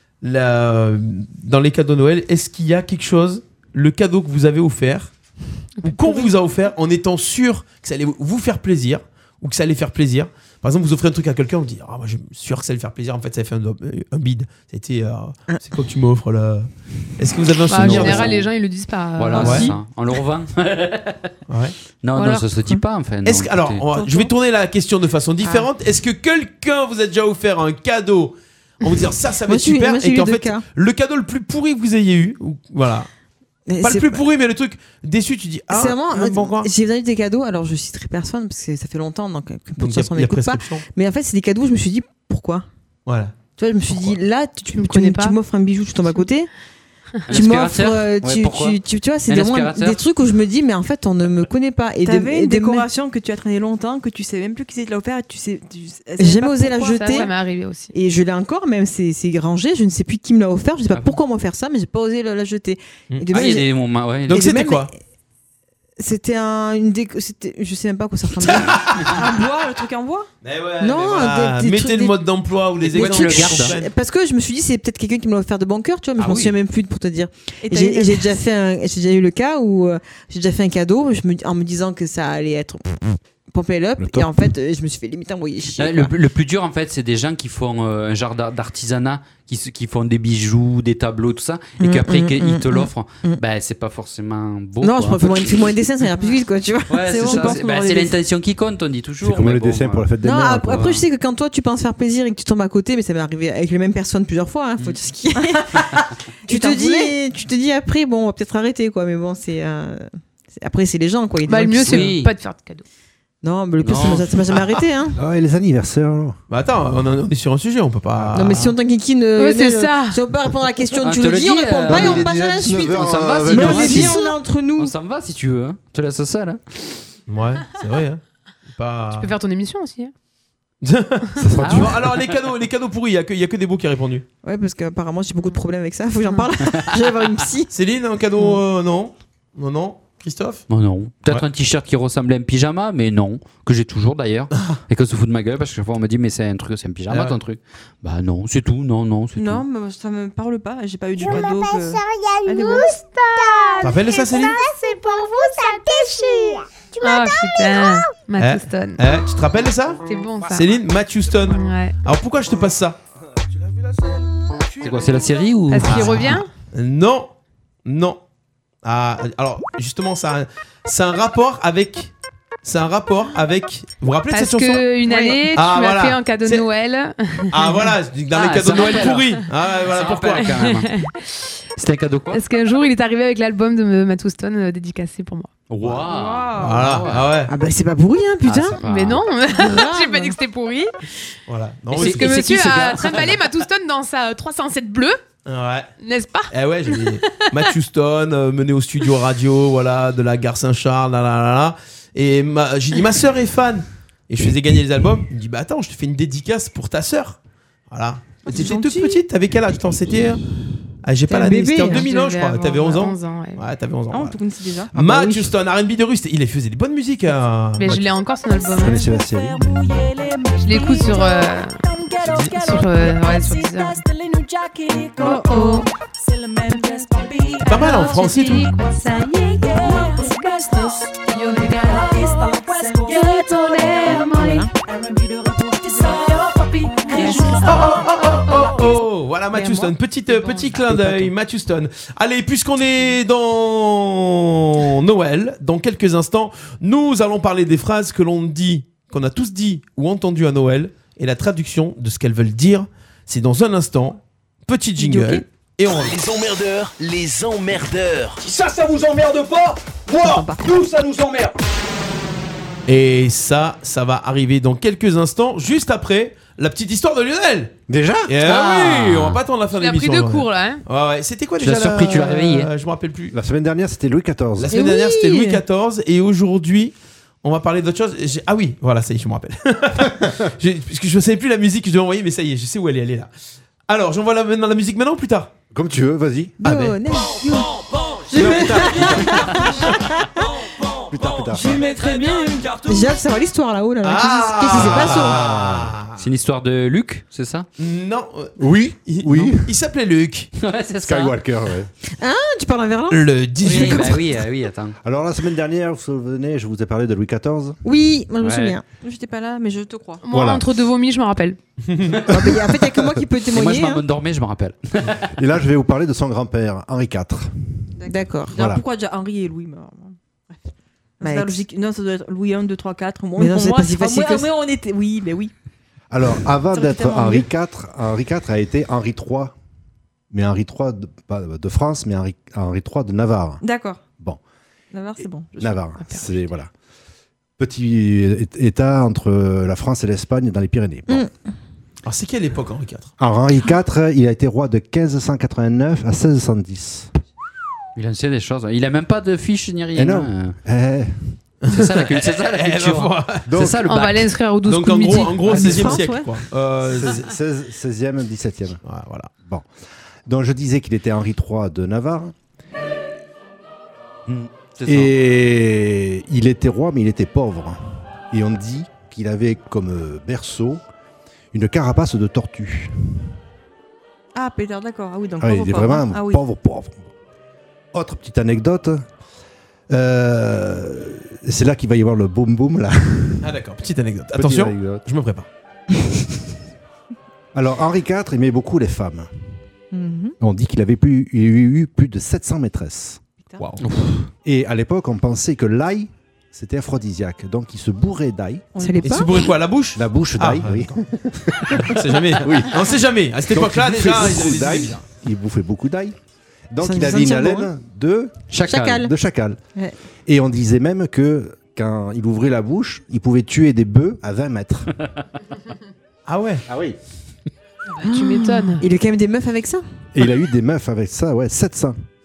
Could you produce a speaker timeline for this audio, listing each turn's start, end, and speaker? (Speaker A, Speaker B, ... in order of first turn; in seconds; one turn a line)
Speaker A: 0.2-5.1
Speaker B: 5.8-6.3
Speaker A: 5.8-18.4
Speaker B: 17.7-19.8
Speaker C: 17.7-18.5
Speaker C: 19.2-21.3
Speaker A: 19.4-19.7
Speaker A: 21.5-21.8
Speaker C: 22.0-23.8
Speaker B: 22.1-22.5
Speaker A: 23.2-33.1
Speaker D: 23.9-24.3
Speaker E: 25.4-25.7
Speaker E: 29.5-30.6
Speaker E: 33.7-34.2
Speaker A: 33.8-36.7
Speaker E: 35.7-42.7
Speaker A: 39.8-40.9
Speaker A: 43.1-43.3
Speaker E: 43.6-46.5
Speaker A: 43.9-44.2
Speaker B: 44.7-45.4
Speaker C: 47.3-50.0
Speaker E: 47.3-52.9
Speaker D: 52.0-57.3
Speaker E: 56.2-57.3
Speaker B: 56.9-57.9
Speaker E: 57.9-63.7
Speaker C: 60.9-61.2
Speaker C: 63.3-64.4
Speaker E: 64.3-65.0
Speaker A: 64.3-64.9
Speaker E: 66.0-69.0
Speaker A: 68.4-69.0
Speaker D: 69.0-70.3
Speaker A: 70.4-73.9
Speaker E: 70.8-72.2
Speaker E: 72.8-86.1
Speaker C: 72.9-73.7
Speaker C: 76.2-76.5
Speaker D: 77.6-78.3
Speaker F: 84.0-84.3
Speaker C: 85.8-95.6
Speaker E: 91.8-93.4
Speaker E: 94.8-97.6
Speaker C: 96.9-100.1
Speaker D: 97.0-98.2
Speaker F: 99.2-100.9
Speaker E: 100.2-112.1
Speaker C: 100.7-101.0
Speaker D: 106.5-107.1
Speaker B: 111.4-112.8
Speaker C: 111.9-112.3
Speaker E: 113.4-115.2
Speaker C: 113.8-114.3
Speaker F: 115.2-116.4
Speaker A: 116.5-118.7
Speaker F: 118.2-118.7
Speaker E: 118.3-125.0
Speaker B: 119.4-120.2
Speaker C: 121.0-124.2
Speaker F: 121.9-124.2
Speaker C: 124.8-127.0
Speaker A: 127.3-129.3
Speaker B: 129.2-130.1
Speaker A: 130.8-134.2
Speaker F: 131.4-132.0
Speaker C: 131.6-132.3
Speaker E: 134.4-137.7
Speaker A: 137.7-140.7
Speaker C: 140.7-149.7
Speaker A: 144.5-144.8
Speaker A: 147.1-147.4
Speaker D: 149.3-152.9
Speaker G: 151.2-158.1
Speaker A: 153.8-154.6
Speaker B: 157.0-159.0
Speaker A: 158.4-163.0
Speaker B: 160.1-160.7
Speaker B: 161.5-161.9
Speaker C: 164.8-166.4
Speaker B: 165.7-166.5
Speaker A: 165.8-167.3
Speaker A: 167.8-168.2
Speaker A: 168.8-172.1
Speaker A: 172.6-176.7
Speaker B: 174.3-177.9
Speaker A: 177.5-180.6
Speaker C: 178.3-180.9
Speaker B: 179.0-179.3
Speaker B: 180.5-181.5
Speaker C: 181.8-182.4
Speaker B: 182.3-185.5
Speaker C: 185.7-187.3
Speaker D: 186.0-186.8
Speaker A: 186.6-187.5
Speaker E: 187.5-188.8
Speaker C: 188.4-189.2
Speaker B: 188.8-190.9
Speaker E: 189.6-190.3
Speaker A: 191.5-192.5
Speaker C: 191.9-193.4
Speaker B: 192.0-195.2
Speaker A: 195.5-195.9
Speaker B: 196.0-197.5
Speaker A: 196.5-207.4
Speaker A: 207.9-210.4
Speaker E: 208.5-209.2
Speaker D: 208.5-208.9
Speaker A: 211.0-214.4
Speaker E: 211.3-212.1
Speaker B: 211.9-213.6
Speaker D: 214.1-214.9
Speaker A: 214.9-218.1
Speaker E: 214.9-215.5
Speaker B: 217.8-219.1
Speaker F: 218.8-219.7
Speaker D: 219.6-221.2
Speaker B: 220.6-221.9
Speaker A: 222.2-222.7
Speaker B: 222.5-224.0
Speaker D: 223.7-225.6
Speaker B: 225.2-225.9
Speaker D: 226.4-227.7
Speaker B: 226.8-227.0
Speaker A: 227.6-228.8
Speaker B: 227.7-232.6
Speaker D: 229.6-230.1
Speaker D: 231.9-237.9
Speaker B: 233.2-234.6
Speaker E: 234.3-234.7
Speaker B: 236.8-237.7
Speaker A: 237.4-256.2
Speaker E: 239.5-239.9
Speaker B: 240.3-240.8
Speaker E: 240.8-241.1
Speaker D: 255.0-255.4
Speaker H: 255.9-258.5
Speaker I: 258.4-260.0
Speaker D: 260.2-260.7
Speaker I: 260.6-261.5
Speaker A: 262.9-267.7
Speaker F: 267.9-268.3
Speaker A: 268.3-273.4
Speaker C: 268.4-269.4
Speaker B: 269.8-270.8
Speaker C: 271.6-272.7
Speaker F: 273.3-274.7
Speaker A: 274.6-283.3
Speaker E: 274.7-275.6
Speaker A: 283.9-285.5
Speaker F: 285.7-286.6
Speaker E: 286.6-290.4
Speaker A: 286.6-287.0
Speaker A: 288.3-289.3
Speaker F: 288.4-289.4
Speaker F: 291.1-291.8
Speaker D: 291.5-292.7
Speaker E: 292.8-295.4
Speaker A: 294.0-296.2
Speaker F: 294.7-296.0
Speaker C: 296.2-297.7
Speaker A: 297.8-300.5
Speaker F: 298.6-299.7
Speaker C: 300.6-301.4
Speaker F: 301.0-301.9
Speaker E: 302.2-304.0
Speaker A: 303.1-304.2
Speaker C: 303.6-304.9
Speaker F: 305.0-307.8
Speaker E: 307.8-308.9
Speaker C: 308.4-308.8
Speaker D: 309.0-310.2
Speaker B: 310.2-311.6
Speaker F: 310.3-310.6
Speaker A: 311.9-312.2
Speaker E: 312.3-314.0
Speaker C: 313.5-315.3
Speaker F: 315.1-317.5
Speaker D: 318.0-320.6
Speaker E: 318.1-318.7
Speaker F: 318.5-318.8
Speaker D: 321.2-325.5
Speaker E: 321.2-321.6
Speaker E: 323.4-324.5
Speaker F: 326.1-329.5
Speaker D: 326.7-327.4
Speaker F: 330.3-333.6
Speaker D: 333.6-334.0
Speaker D: 334.9-336.4
Speaker F: 335.6-336.7
Speaker F: 337.6-341.2
Speaker E: 341.1-341.3
Speaker A: 342.1-343.1
Speaker F: 343.2-347.1
Speaker C: 348.0-350.6
Speaker F: 350.0-351.1
Speaker A: 351.6-353.5
Speaker C: 351.7-354.3
Speaker F: 353.5-353.9
Speaker B: 353.8-355.6
Speaker A: 354.6-357.3
Speaker E: 355.5-356.3
Speaker C: 355.5-356.0
Speaker F: 356.9-358.8
Speaker A: 358.9-359.3
Speaker F: 360.3-362.3
Speaker C: 364.3-365.1
Speaker F: 364.9-367.8
Speaker F: 368.3-370.8
Speaker F: 371.5-373.2
Speaker D: 374.4-376.4
Speaker F: 375.4-377.1
Speaker F: 377.9-379.0
Speaker F: 379.9-383.5
Speaker A: 383.4-385.5
Speaker F: 384.3-385.0
Speaker F: 387.5-389.3
Speaker E: 389.9-390.4
Speaker F: 390.4-393.2
Speaker C: 393.8-394.2
Speaker F: 394.4-398.7
Speaker D: 398.8-399.3
Speaker E: 398.8-399.5
Speaker A: 399.0-400.9
Speaker F: 399.9-402.9
Speaker A: 401.7-405.0
Speaker F: 403.5-406.2
Speaker F: 406.7-409.6
Speaker E: 406.8-407.7
Speaker C: 408.5-409.1
Speaker E: 408.6-409.1
Speaker F: 410.3-414.9
Speaker A: 416.3-416.6
Speaker F: 416.7-417.0
Speaker B: 417.9-418.8
Speaker E: 418.0-419.9
Speaker F: 420.1-422.0